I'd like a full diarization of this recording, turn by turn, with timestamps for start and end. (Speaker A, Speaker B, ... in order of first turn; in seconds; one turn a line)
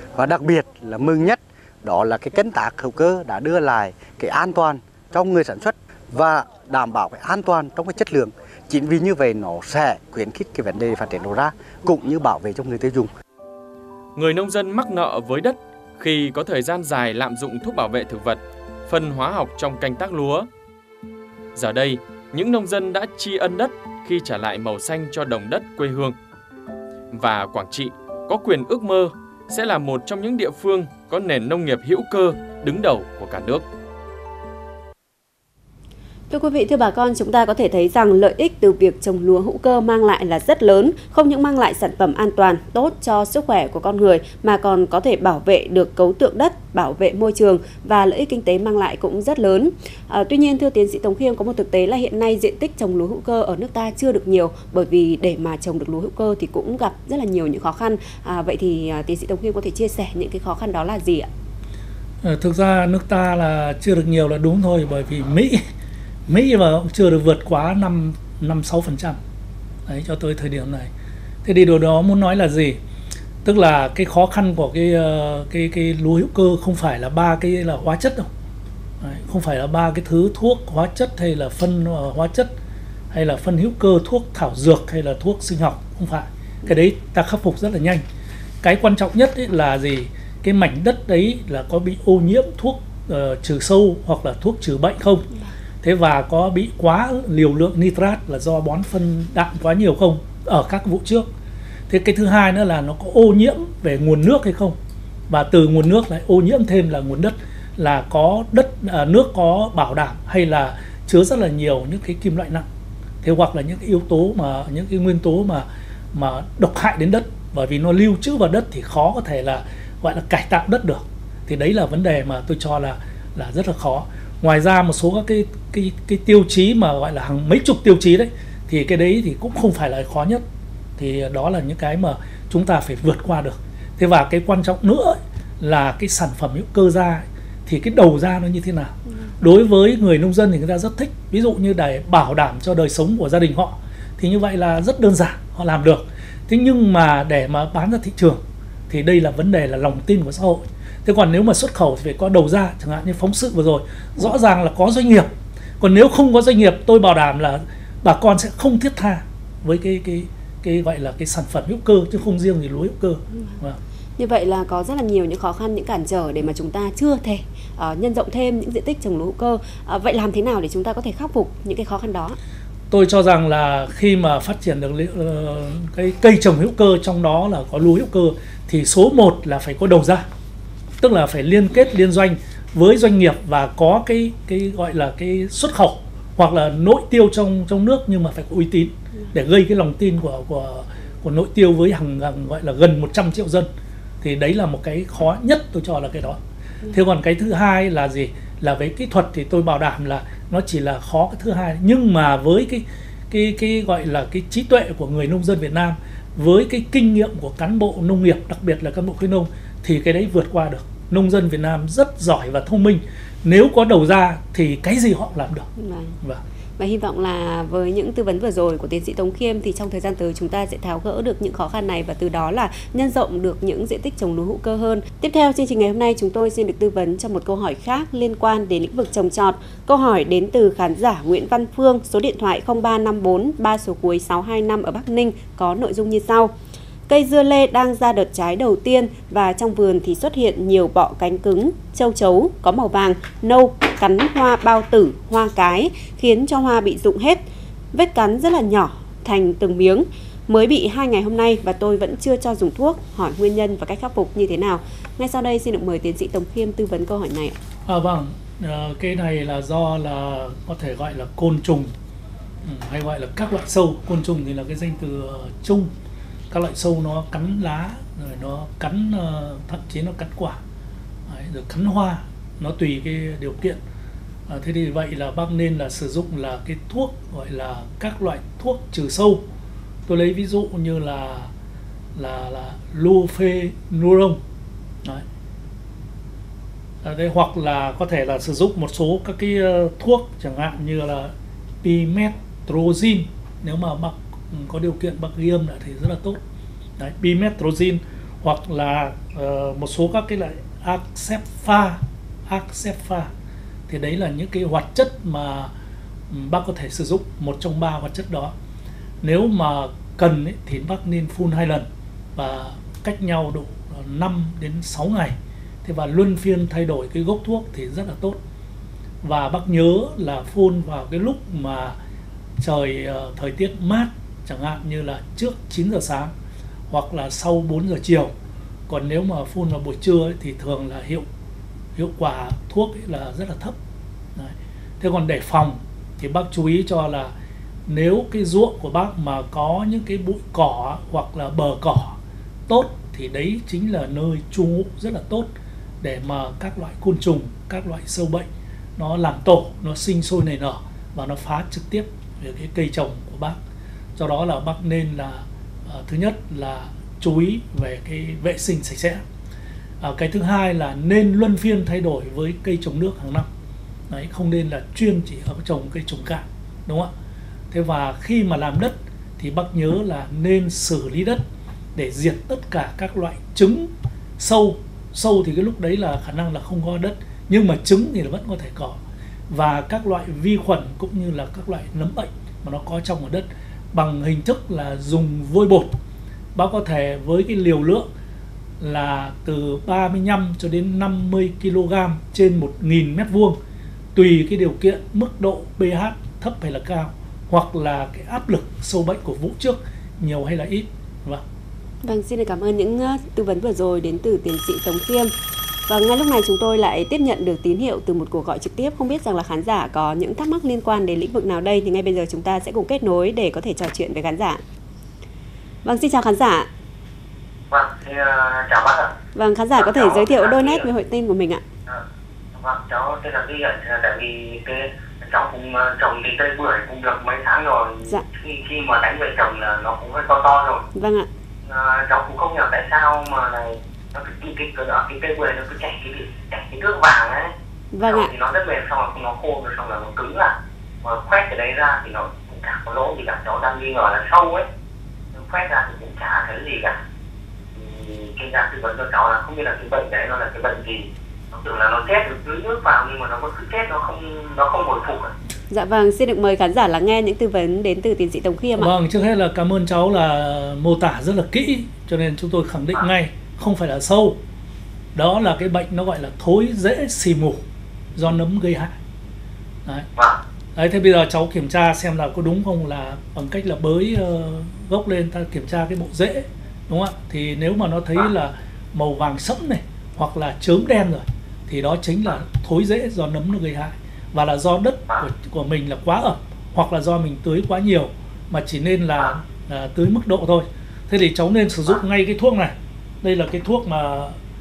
Speaker A: 0.1-13.1
Speaker B: 14.1-20.5
Speaker B: 21.5-26.1
Speaker B: 27.1-33.7
Speaker C: 36.3-61.3
Speaker D: 62.2-65.6
Speaker D: 66.3-69.2
Speaker D: 69.9-70.9
Speaker D: 71.4-72.8
Speaker D: 73.4-78.3
Speaker D: 79.0-82.5
Speaker D: 83.1-88.0
Speaker D: 88.6-95.3
Speaker D: 95.8-101.2
Speaker D: 101.9-104.8
Speaker D: 105.3-112.7
Speaker D: 113.2-130.4
Speaker D: 131.0-155.3
Speaker D: 155.8-163.8
Speaker C: 164.2-172.4
Speaker D: 172.9-180.2
Speaker D: 181.0-193.7
Speaker D: 194.2-215.7
Speaker C: 215.8-216.1
Speaker C: 216.8-236.5
Speaker C: 237.1-257.6
Speaker D: 257.9-261.9
Speaker D: 262.6-265.9
Speaker D: 266.5-270.6
Speaker D: 271.3-273.8
Speaker D: 274.5-279.4
Speaker D: 280.1-281.5
Speaker D: 282.1-284.4
Speaker D: 287.0-291.3
Speaker D: 291.8-296.4
Speaker D: 297.0-303.3
Speaker D: 303.9-305.7
Speaker D: 306.3-308.5
Speaker D: 309.2-318.4
Speaker D: 319.2-322.0
Speaker D: 322.6-326.3
Speaker D: 326.9-328.3
Speaker D: 328.9-331.2
Speaker D: 331.9-333.8
Speaker D: 334.4-337.3
Speaker D: 337.9-345.5
Speaker D: 346.0-353.6
Speaker D: 354.1-359.2
Speaker D: 360.0-363.5
Speaker D: 364.1-367.1
Speaker D: 367.7-371.4
Speaker D: 371.9-385.9
Speaker D: 386.6-388.1
Speaker D: 388.8-393.6
Speaker D: 394.1-401.4
Speaker C: 402.0-405.3
Speaker C: 405.9-414.6
Speaker C: 415.8-416.7
Speaker E: 417.7-419.1
Speaker C: 419.3-421.6
Speaker E: 419.8-420.9
Speaker E: 422.5-430.8
Speaker C: 430.9-431.3
Speaker E: 431.6-437.5
Speaker C: 437.9-438.3
Speaker E: 438.0-444.6
Speaker E: 445.3-447.0
Speaker E: 447.7-455.3
Speaker C: 455.7-458.9
Speaker D: 458.8-464.4
Speaker D: 465.1-467.6
Speaker D: 468.1-468.9
Speaker D: 470.8-494.4